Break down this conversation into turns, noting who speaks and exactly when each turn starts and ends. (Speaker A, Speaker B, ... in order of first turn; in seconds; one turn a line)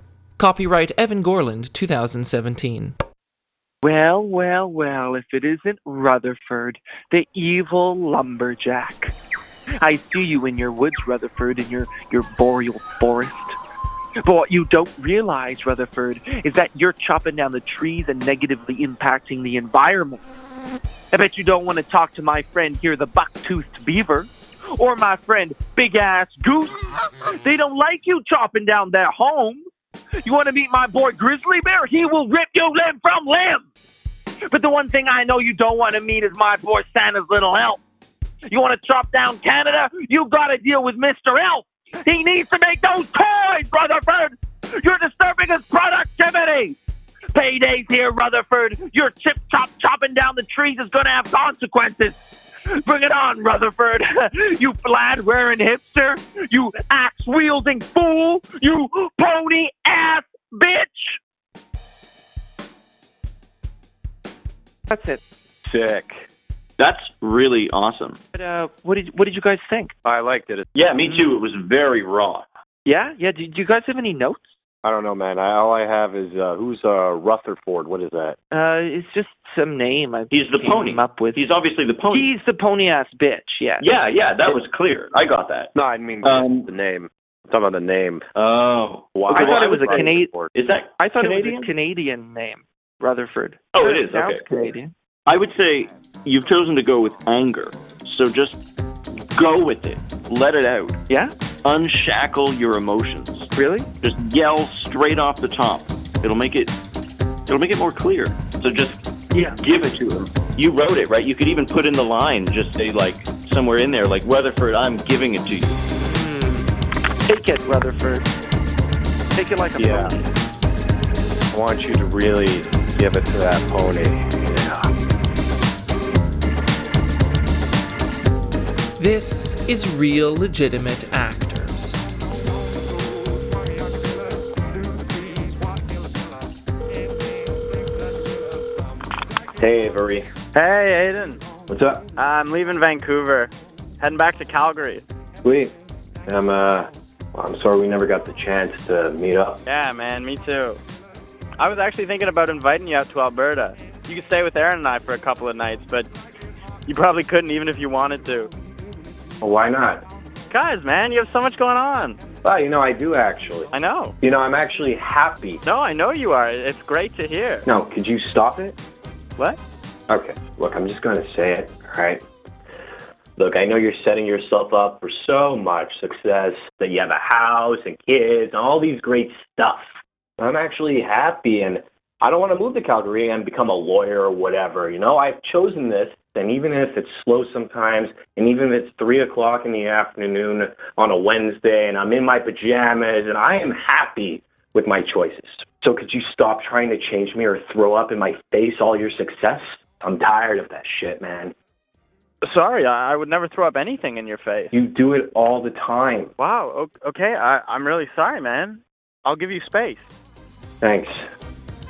Speaker A: 0.4-3.0
Speaker B: 3.8-9.1
Speaker B: 9.8-13.6
Speaker B: 14.2-20.2
Speaker B: 21.1-29.6
Speaker B: 30.2-33.6
Speaker B: 34.5-37.8
Speaker B: 38.5-46.8
Speaker B: 47.3-52.2
Speaker B: 52.8-61.2
Speaker B: 64.9-65.2
Speaker C: 65.6-66.2
Speaker D: 66.8-68.2
Speaker B: 68.3-69.9
Speaker C: 70.0-70.7
Speaker D: 70.7-72.5
Speaker B: 72.8-74.5
Speaker C: 74.8-78.4
Speaker B: 78.5-81.4
Speaker D: 80.3-82.3
Speaker B: 82.1-83.8
Speaker D: 83.8-86.7
Speaker C: 85.7-88.2
Speaker D: 88.3-91.7
Speaker C: 89.1-90.5
Speaker B: 89.3-90.3
Speaker B: 91.0-94.9
Speaker D: 93.7-94.5
Speaker D: 95.3-98.6
Speaker D: 99.3-101.0
Speaker D: 101.6-103.5
Speaker B: 103.5-103.9
Speaker D: 104.0-106.8
Speaker D: 107.5-115.8
Speaker B: 109.3-109.6
Speaker B: 116.0-116.7
Speaker B: 117.2-118.3
Speaker B: 119.3-120.3
Speaker C: 119.8-120.1
Speaker C: 121.5-124.9
Speaker A: 129.0-132.0
Speaker C: 139.6-140.3
Speaker E: 140.5-141.4
Speaker C: 141.7-142.0
Speaker E: 142.2-145.0
Speaker C: 145.4-145.7
Speaker C: 146.3-149.6
Speaker E: 149.7-150.8
Speaker E: 151.6-156.1
Speaker E: 156.8-158.5
Speaker C: 159.4-160.0
Speaker E: 160.5-162.2
Speaker C: 162.4-163.7
Speaker E: 163.7-164.2
Speaker C: 164.2-165.6
Speaker E: 165.6-167.7
Speaker C: 167.7-168.7
Speaker C: 170.1-172.2
Speaker C: 173.4-179.8
Speaker C: 180.4-201.5
Speaker E: 202.4-204.7
Speaker C: 204.7-206.3
Speaker E: 206.4-210.1
Speaker C: 210.8-211.2